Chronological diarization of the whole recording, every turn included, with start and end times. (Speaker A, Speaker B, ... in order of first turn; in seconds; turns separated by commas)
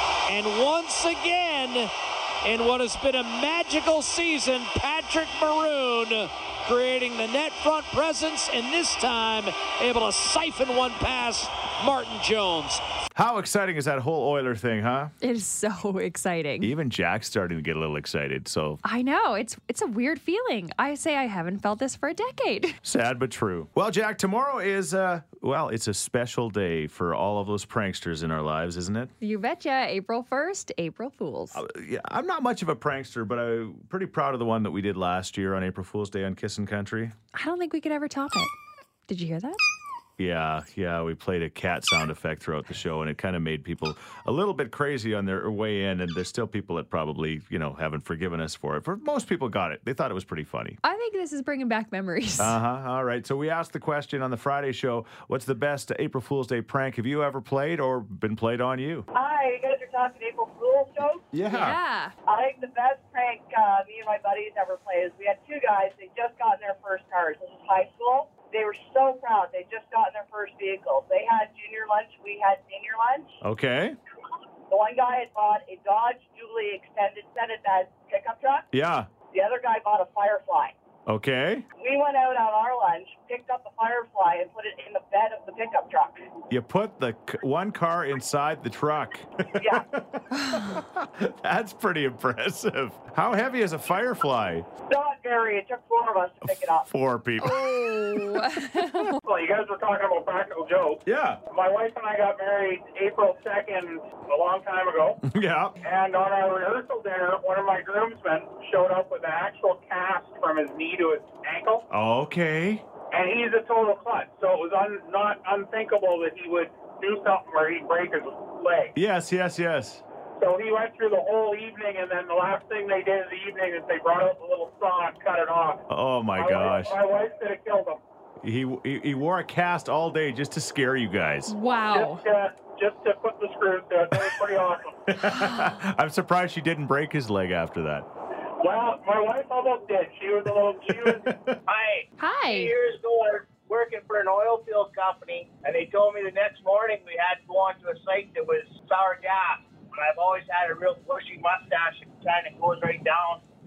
Speaker A: 0.3-1.9, Speaker A: 2.5-12.8, Speaker B: 13.2-15.1, Speaker C: 15.2-16.7, Speaker B: 16.6-18.8, Speaker C: 18.8-22.8, Speaker B: 22.8-29.1, Speaker C: 29.2-31.6, Speaker B: 31.5-37.1, Speaker C: 37.3-38.5, Speaker C: 39.1-39.6, Speaker B: 40.2-50.8, Speaker C: 50.8-52.6, Speaker B: 52.4-59.1, Speaker D: 59.1-61.3, Speaker B: 61.3-61.8, Speaker C: 61.5-62.1, Speaker D: 62.3-73.4, Speaker B: 73.4-74.0, Speaker D: 74.7-78.7, Speaker B: 78.7-79.1, Speaker D: 79.3-80.7, Speaker B: 81.1-81.7, Speaker D: 81.8-86.2, Speaker B: 86.5-94.7, Speaker D: 89.6-89.9, Speaker C: 90.3-90.8, Speaker D: 94.9-96.9, Speaker B: 96.4-98.4, Speaker C: 97.4-99.2, Speaker E: 99.2-105.2, Speaker B: 101.1-101.4, Speaker B: 105.3-105.8, Speaker E: 105.8-111.8, Speaker B: 111.9-112.8, Speaker E: 113.1-118.9, Speaker B: 119.0-120.0, Speaker E: 120.4-125.8, Speaker B: 125.9-127.0, Speaker E: 126.4-128.0, Speaker B: 128.4-131.5, Speaker C: 131.5-132.2, Speaker E: 131.9-135.0, Speaker B: 135.1-138.1, Speaker C: 135.3-135.8, Speaker E: 138.6-141.3, Speaker B: 141.1-141.6, Speaker F: 141.7-153.4, Speaker C: 142.2-142.7